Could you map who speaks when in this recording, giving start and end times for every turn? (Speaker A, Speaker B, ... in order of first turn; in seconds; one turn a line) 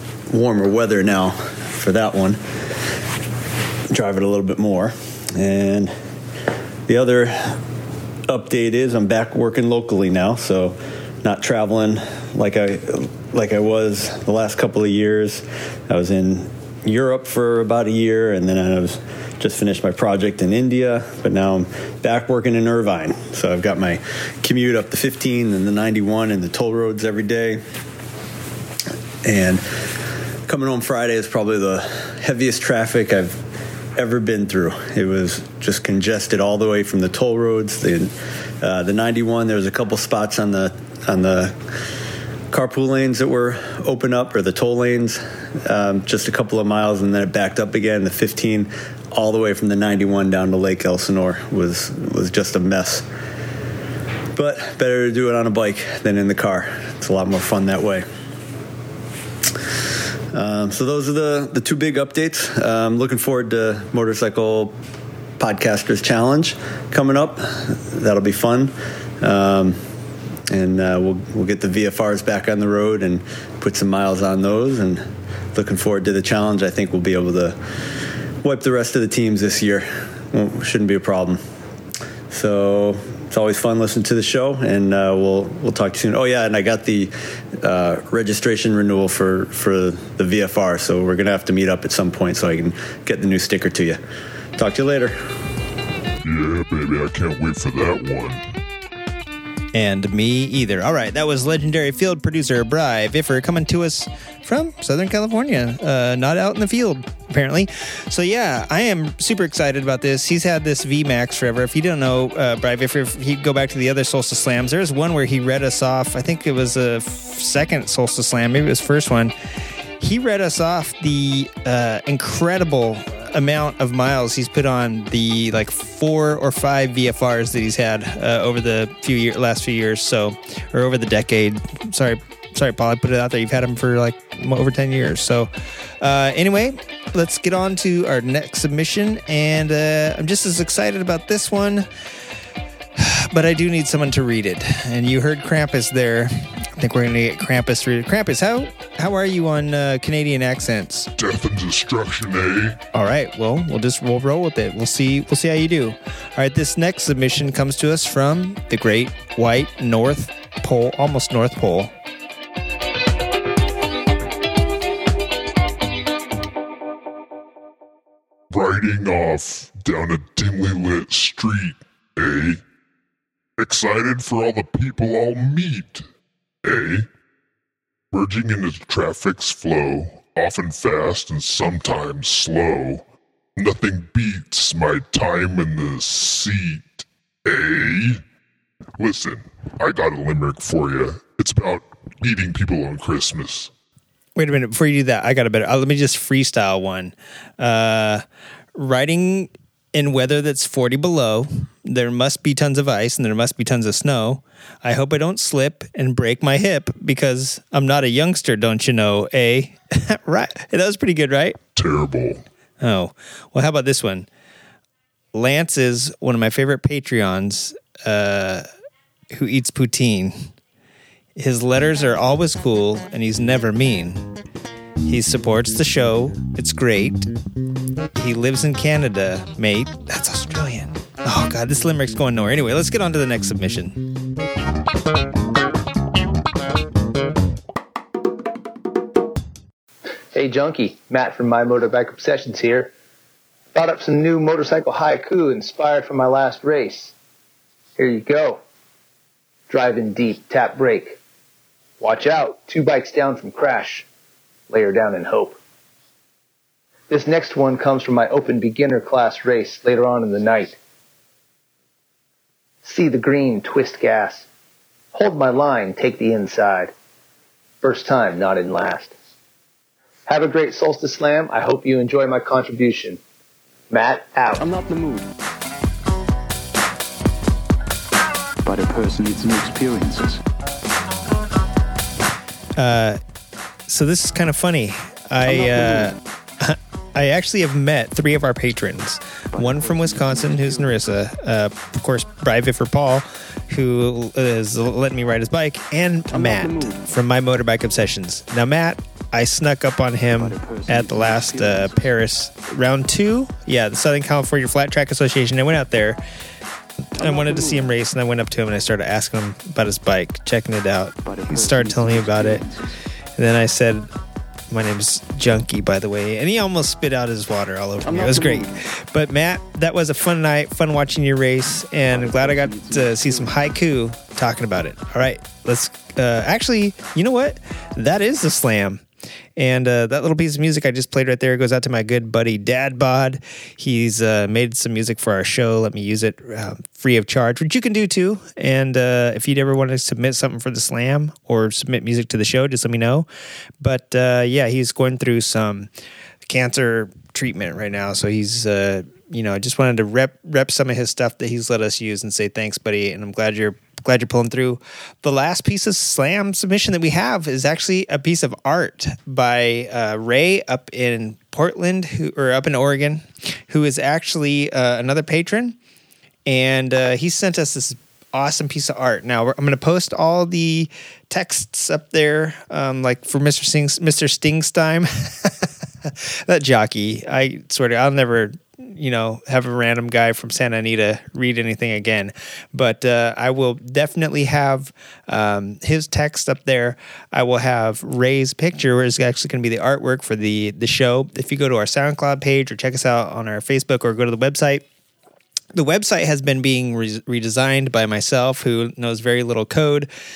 Speaker A: 0.3-2.4
Speaker A: 3.9-5.9
Speaker A: 6.9-7.6
Speaker A: 8.3-27.6
Speaker A: 29.2-33.4
Speaker A: 34.0-41.6
Speaker A: 42.5-53.1
Speaker A: 54.3-58.1
Speaker A: 60.3-64.8
Speaker A: 65.4-69.8
Speaker A: 70.5-81.4
Speaker A: 82.3-94.0
Speaker A: 94.6-95.4
Speaker B: 96.2-98.4
Speaker C: 99.7-119.3
Speaker C: 120.0-141.9
Speaker C: 143.0-151.1
Speaker B: 151.2-152.8
Speaker C: 152.9-161.9
Speaker B: 168.5-172.6
Speaker B: 173.6-176.1
Speaker B: 176.6-177.1
Speaker B: 178.1-183.0
Speaker B: 183.6-188.2
Speaker B: 189.0-193.7
Speaker C: 194.4-198.2
Speaker C: 198.8-211.6
Speaker B: 211.8-212.4
Speaker C: 212.8-214.3
Speaker C: 215.3-218.7
Speaker C: 219.3-220.5
Speaker C: 221.4-224.3
Speaker C: 225.0-227.3
Speaker C: 228.2-234.0
Speaker D: 240.3-242.9
Speaker D: 243.7-247.1
Speaker D: 248.0-248.6
Speaker D: 249.7-251.2
Speaker D: 252.0-254.1
Speaker D: 254.7-255.6
Speaker D: 257.1-260.8
Speaker D: 262.8-264.5
Speaker D: 265.1-266.9
Speaker D: 267.8-269.1
Speaker D: 270.3-273.2
Speaker D: 273.9-274.7
Speaker E: 274.6-275.3
Speaker E: 278.6-280.4
Speaker C: 282.8-283.2
Speaker C: 283.9-306.2
Speaker E: 285.4-286.1
Speaker E: 289.5-291.2
Speaker E: 296.3-297.1
Speaker E: 300.4-302.1
Speaker C: 307.2-312.6
Speaker E: 307.2-307.9
Speaker E: 311.2-313.0
Speaker C: 313.4-314.1
Speaker C: 314.7-329.0
Speaker E: 318.0-318.7
Speaker E: 322.0-323.7
Speaker C: 329.6-343.3
Speaker C: 343.8-345.9
Speaker C: 346.5-365.8
Speaker C: 366.5-394.8
Speaker C: 395.7-400.1